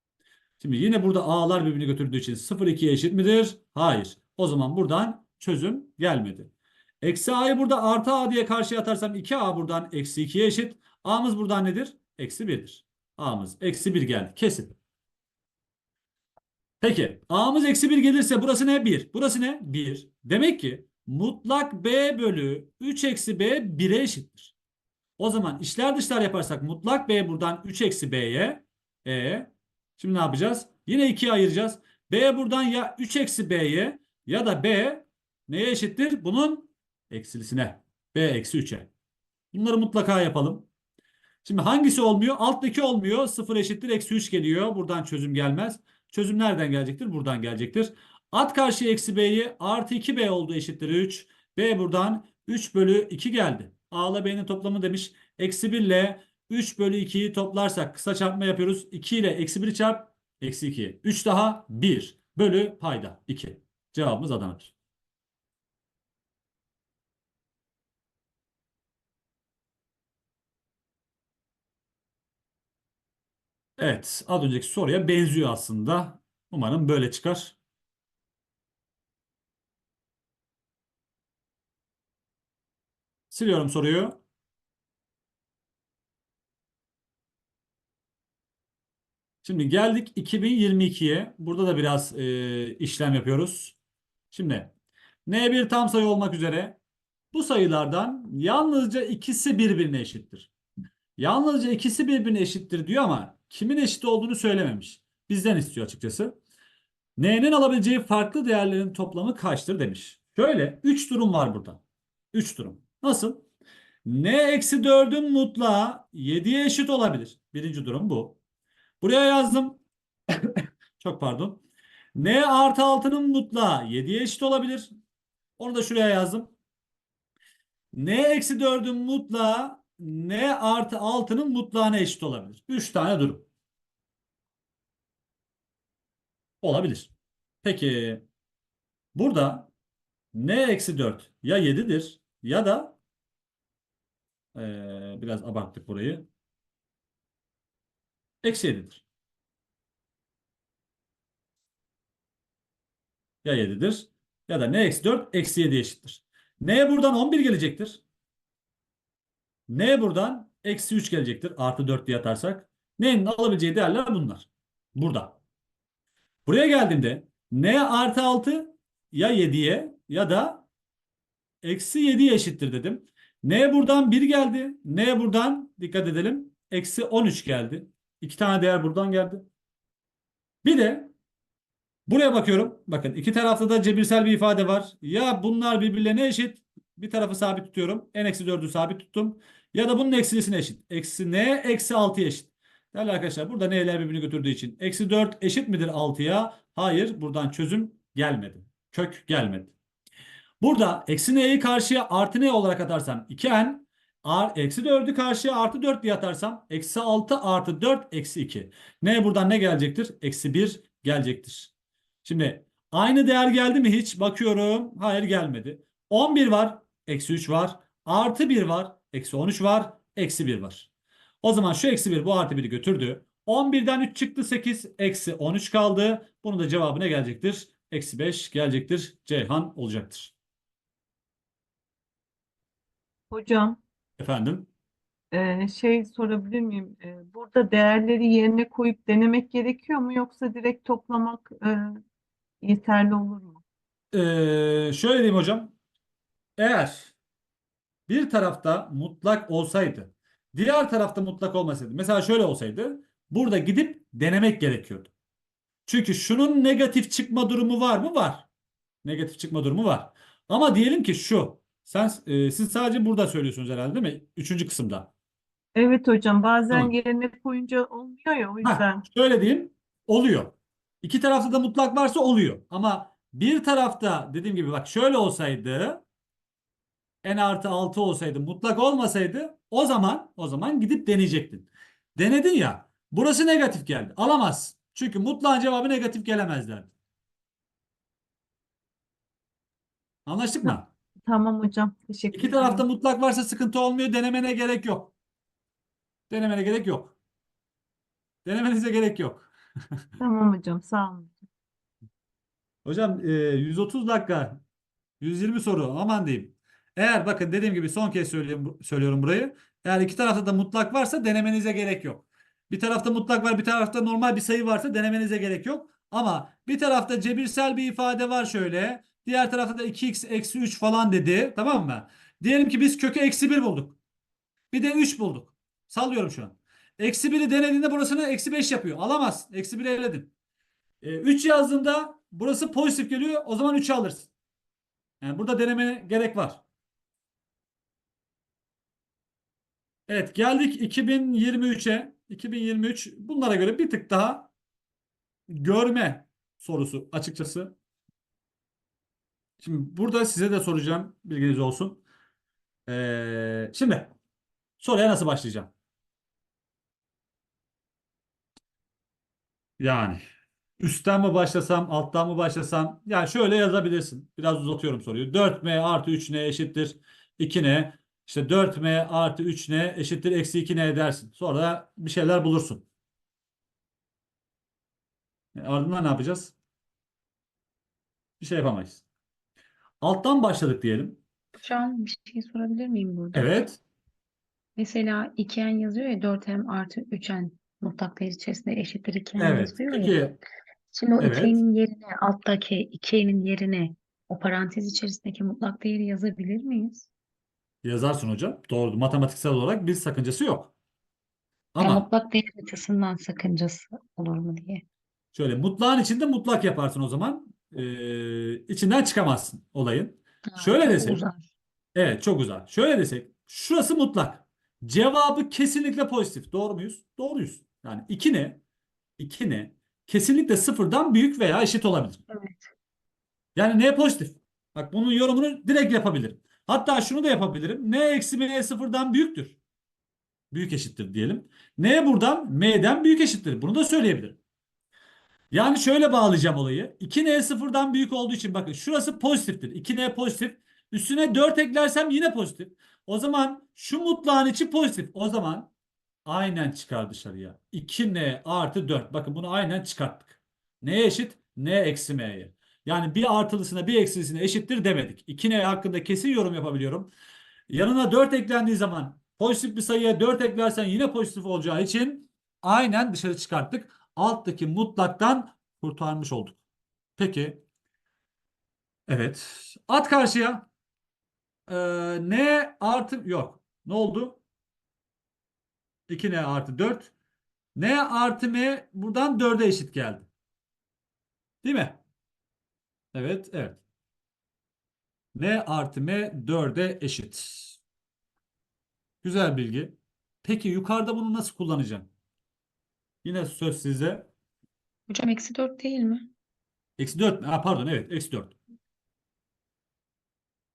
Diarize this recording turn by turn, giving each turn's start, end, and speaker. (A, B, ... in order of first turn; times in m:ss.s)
0:00.6-0:14.8 A
0:16.8-0:24.5 A
0:25.2-0:38.9 A
0:39.5-0:40.7 A
0:41.4-1:04.7 A
1:13.8-1:17.6 A
1:23.3-1:24.2 A
1:29.4-1:33.8 A
1:34.3-1:34.7 A
1:35.3-1:36.8 A
1:37.3-1:40.5 A
1:41.2-1:46.4 A
1:47.2-1:51.8 A
1:52.3-1:53.4 A
1:54.1-1:58.4 A
1:59.0-1:59.8 A
2:00.3-2:01.6 A
2:02.2-2:04.9 A
2:05.6-2:06.5 A
2:07.9-2:13.5 A
2:16.6-2:17.1 A
2:17.6-2:18.2 A
2:19.2-2:19.7 A
2:20.3-2:23.0 A
2:24.6-2:26.3 A
2:28.4-2:29.0 A
2:33.4-2:38.0 A
2:39.7-2:45.4 A
2:46.5-2:50.7 A
2:51.6-2:59.5 A
3:00.6-3:01.1 A
3:02.1-3:19.7 A
3:20.6-3:31.7 A
3:32.2-3:40.9 A
3:41.4-3:50.3 A
3:53.3-3:53.8 B
3:54.2-3:54.7 A
3:55.3-4:02.0 B
4:02.6-4:03.6 B
4:04.1-4:05.7 A
4:06.6-4:07.1 A
4:08.1-4:15.1 A
4:15.9-4:18.5 A
4:19.0-4:25.1 A
4:25.8-4:29.0 B
4:28.6-4:36.0 A
4:37.2-4:46.9 A
4:50.3-4:50.9 A
4:51.2-4:52.9 B
4:52.3-4:55.1 A
4:56.3-4:57.2 A
4:58.4-4:59.5 A
5:00.2-5:01.4 B
5:02.8-5:04.6 A
5:05.2-5:24.0 A
5:24.7-5:30.3 A
5:31.0-5:34.3 A
5:35.2-5:36.6 A
5:40.1-5:44.5 A
5:45.5-5:47.8 A
5:49.6-5:52.0 A
5:52.9-5:54.1 A
5:54.8-5:55.7 A
5:59.8-6:00.2 A
6:00.8-6:12.8 A
6:15.6-6:16.5 A
6:18.4-6:19.0 A
6:20.0-6:21.2 A
6:21.6-6:23.5 C
6:23.3-6:23.8 A
6:24.8-6:30.2 C
6:29.4-6:30.4 A
6:30.9-6:37.1 C
6:31.2-6:31.6 A
6:37.8-6:40.7 A
6:41.8-6:42.1 A
6:41.8-6:44.8 C
6:45.3-6:51.2 A
6:50.5-6:51.5 C
6:52.0-6:58.6 A
6:59.2-7:02.2 A
7:02.3-7:02.7 C
7:03.6-7:09.6 A
7:10.5-7:14.4 A
7:15.5-7:25.7 A
7:26.3-7:37.1 A
7:37.7-7:46.6 A
7:47.2-7:47.6 A
7:49.1-7:50.7 A
7:51.7-7:54.4 A
7:56.1-7:57.1 A
7:57.8-8:00.3 A
8:01.6-8:02.0 A
8:03.1-8:03.8 A
8:05.4-8:07.8 A
8:09.2-8:12.1 A
8:13.2-8:14.3 A
8:15.1-8:16.3 C
8:17.0-8:18.6 A